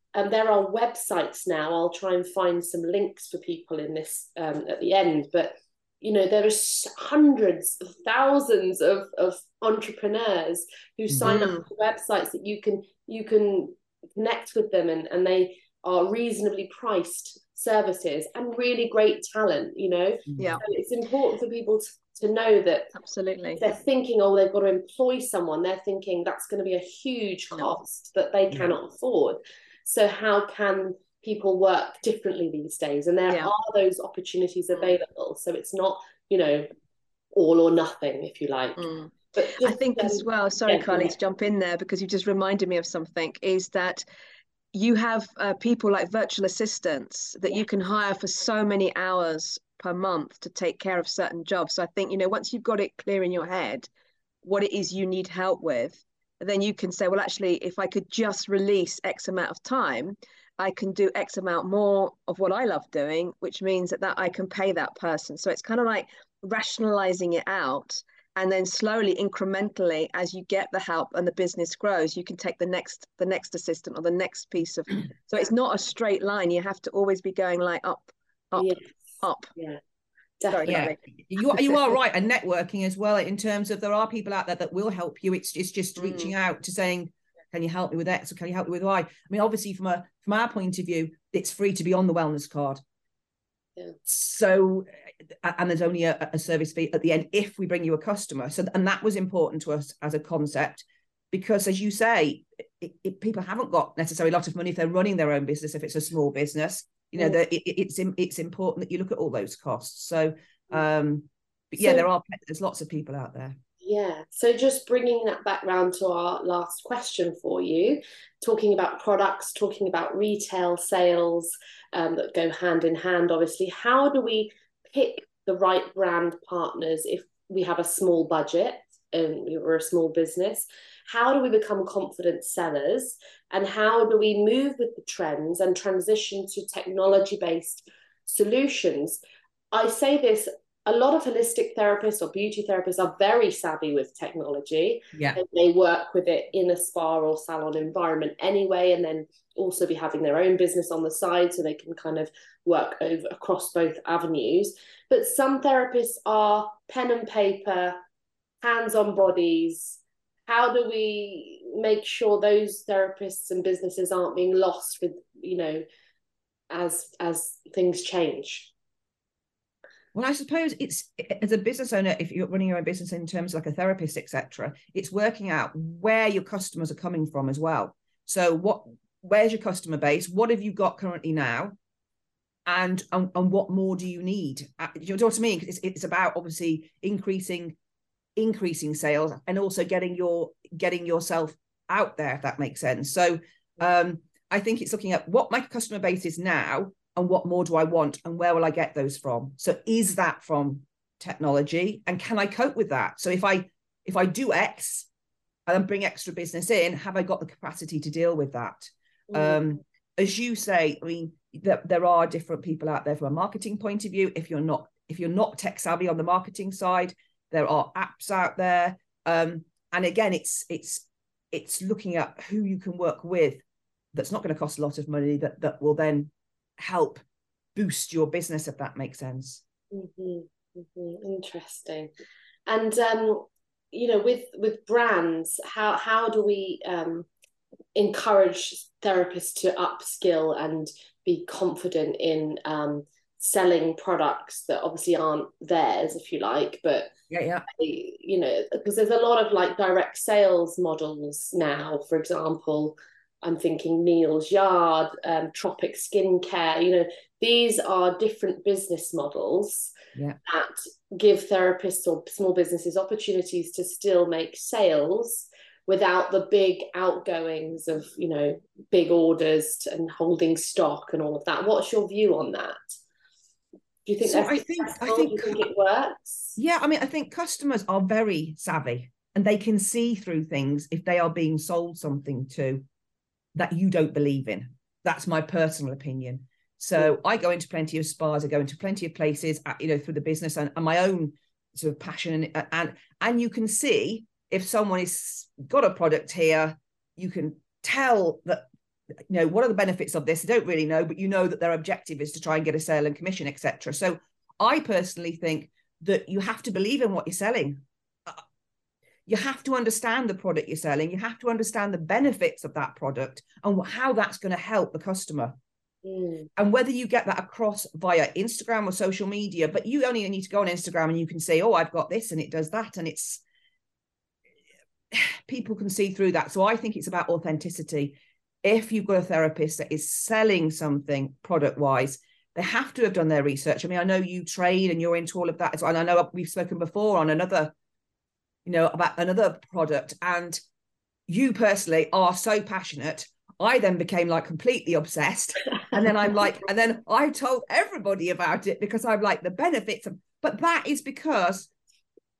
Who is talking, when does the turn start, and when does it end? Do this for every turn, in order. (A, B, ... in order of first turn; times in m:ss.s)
0:00.1-0:22.9 A
0:11.2-0:11.6 B
0:23.0-0:23.6 B
0:23.6-0:36.7 A
0:37.3-0:41.1 A
0:38.8-0:44.0 B
0:44.7-0:53.9 B
0:54.4-1:19.5 B
1:18.6-1:19.8 A
1:20.4-1:20.9 A
1:20.5-1:21.8 B
1:20.6-1:32.8 C
1:26.0-1:26.3 B
1:34.0-1:34.9 C
1:35.4-1:53.6 C
1:53.8-2:19.2 A
2:19.7-2:38.0 A
2:38.6-2:45.8 A
2:46.7-2:48.7 A
2:50.1-3:01.8 C
3:02.6-3:07.8 C
3:08.4-3:25.1 C
3:25.7-3:43.6 C
3:29.3-3:29.6 A
3:44.1-3:47.2 C
3:47.7-3:49.6 C
3:49.9-3:52.1 A
3:52.6-3:57.3 A
3:57.9-4:07.1 A
4:07.3-4:07.6 C
4:07.7-4:19.9 A
4:20.4-4:33.0 A
4:34.0-4:36.6 A
4:34.2-4:35.6 C
4:36.6-4:42.8 C
4:43.6-4:58.6 C
4:59.3-5:08.4 C
5:09.3-5:15.6 C
5:16.0-5:16.5 A
5:16.6-5:23.4 C
5:25.1-5:37.7 C
5:38.6-5:40.6 C
5:41.3-5:51.7 C